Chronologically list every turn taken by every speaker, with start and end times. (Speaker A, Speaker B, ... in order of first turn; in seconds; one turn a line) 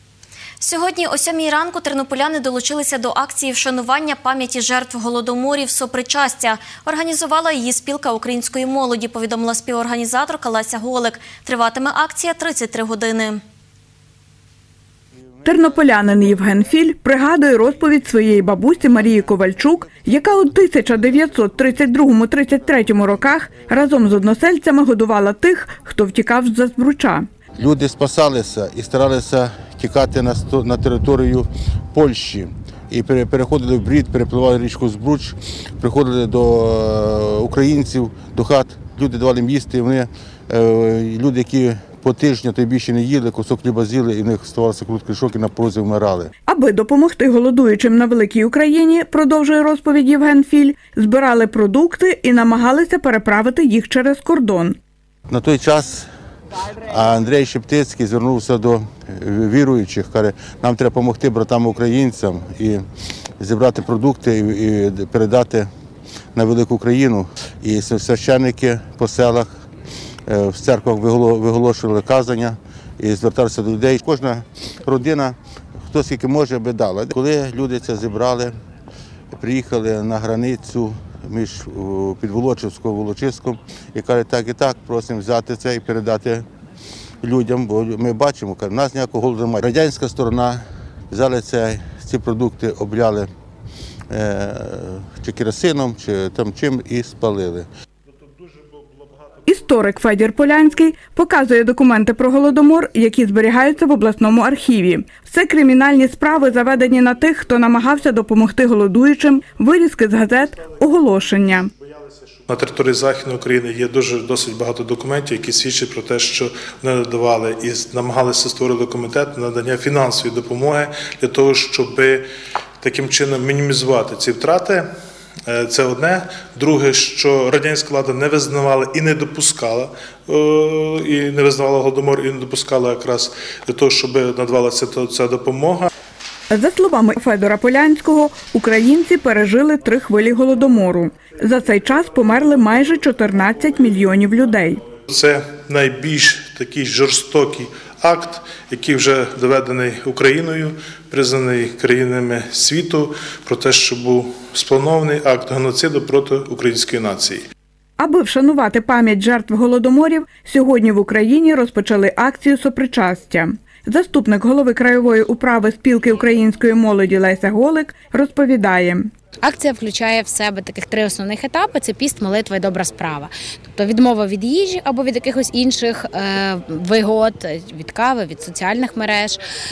Speaker A: 0.6-13.4
Speaker B: 15.4-27.3
Speaker C: 27.6-46.3
Speaker B: 46.5-54.8
Speaker C: 55.3-56.1
Speaker C: 56.8-62.8
Speaker C: 63.4-65.7
Speaker C: 66.3-69.5
Speaker C: 70.3-75.4
Speaker C: 75.9-78.5
Speaker C: 79.3-86.5
Speaker C: 87.2-93.3
Speaker C: 94.1-97.7
Speaker B: 99.5-111.7
Speaker D: 112.5-122.2
Speaker D: 122.8-124.9
Speaker D: 125.5-135.9
Speaker B: 136.5-144.8
Speaker D: 145.1-157.4
Speaker B: 158.0-169.1
Speaker E: 169.4-179.4